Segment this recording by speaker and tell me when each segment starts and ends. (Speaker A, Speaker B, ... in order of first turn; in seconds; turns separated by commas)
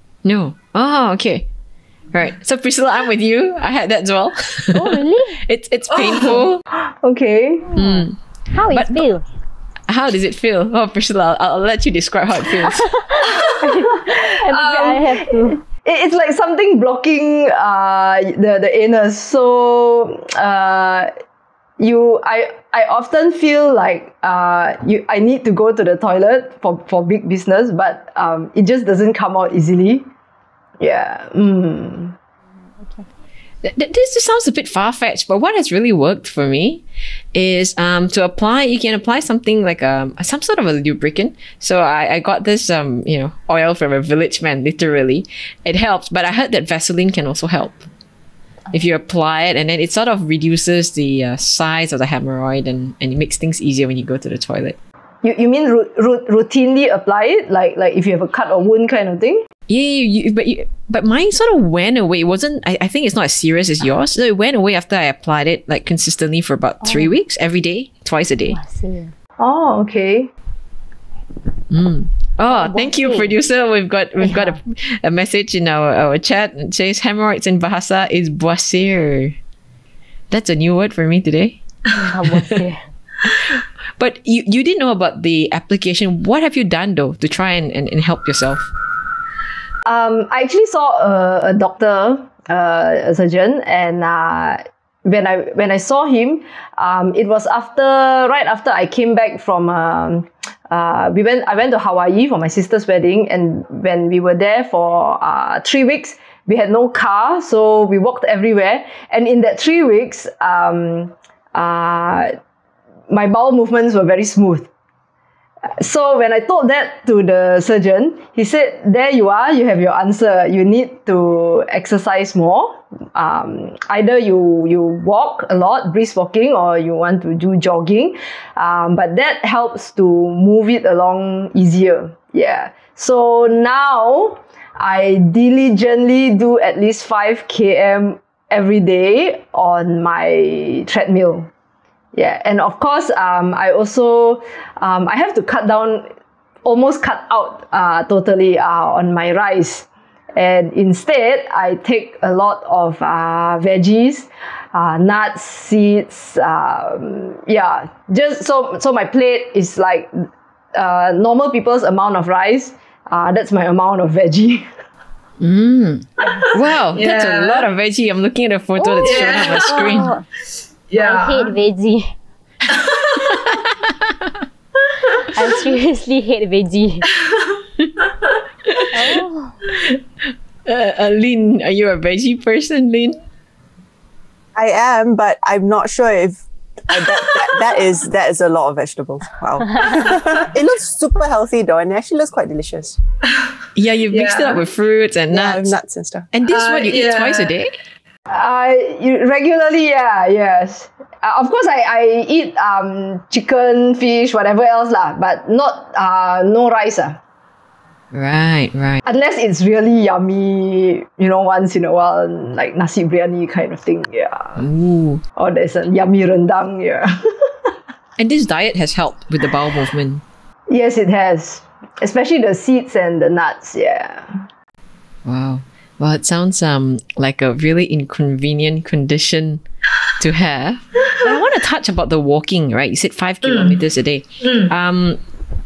Speaker A: 0.2-1.4, Speaker A: 2.1-6.6, Speaker B: 4.7-5.4, Speaker C: 5.9-7.7, Speaker A: 7.7-8.1, Speaker B: 7.7-9.2, Speaker A: 8.7-9.1, Speaker A: 9.9-13.2, Speaker B: 12.7-15.6, Speaker C: 13.2-21.1, Speaker C: 21.8-30.1, Speaker C: 30.8-32.1, Speaker A: 33.6-47.8, Speaker A: 48.7-54.8, Speaker C: 55.2-59.4, Speaker A: 59.7-68.6, Speaker B: 66.8-67.1, Speaker B: 68.5-69.1, Speaker C: 69.4-70.3, Speaker A: 71.7-79.3, Speaker B: 72.5-73.3, Speaker B: 74.2-74.6, Speaker A: 80.3-81.6, Speaker B: 82.0-82.8, Speaker A: 83.2-88.7, Speaker C: 89.8-112.3, Speaker C: 113.1-114.7, Speaker C: 115.8-141.5, Speaker C: 142.1-146.1, Speaker C: 146.6-164.7, Speaker A: 165.4-170.1, Speaker C: 166.3-167.7, Speaker B: 168.8-170.2, Speaker C: 169.0-170.1, Speaker C: 170.9-171.5, Speaker B: 171.0-172.1, Speaker C: 172.7-173.4, Speaker A: 173.2-174.3, Speaker B: 175.2-177.1, Speaker C: 177.2-177.6, Speaker B: 178.9-179.6, Speaker A: 179.7-180.0, Speaker A: 180.7-183.2, Speaker D: 184.5-193.0, Speaker A: 193.7-195.7, Speaker C: 194.1-194.6, Speaker D: 195.3-196.3, Speaker A: 196.3-197.7, Speaker C: 196.5-197.5, Speaker C: 198.3-207.2, Speaker A: 208.1-209.0, Speaker C: 209.0-214.6, Speaker A: 214.6-215.2, Speaker C: 215.3-217.7, Speaker A: 218.2-220.2, Speaker C: 220.7-224.4, Speaker A: 225.2-229.6, Speaker A: 230.2-235.2, Speaker C: 233.4-233.8, Speaker C: 234.4-234.7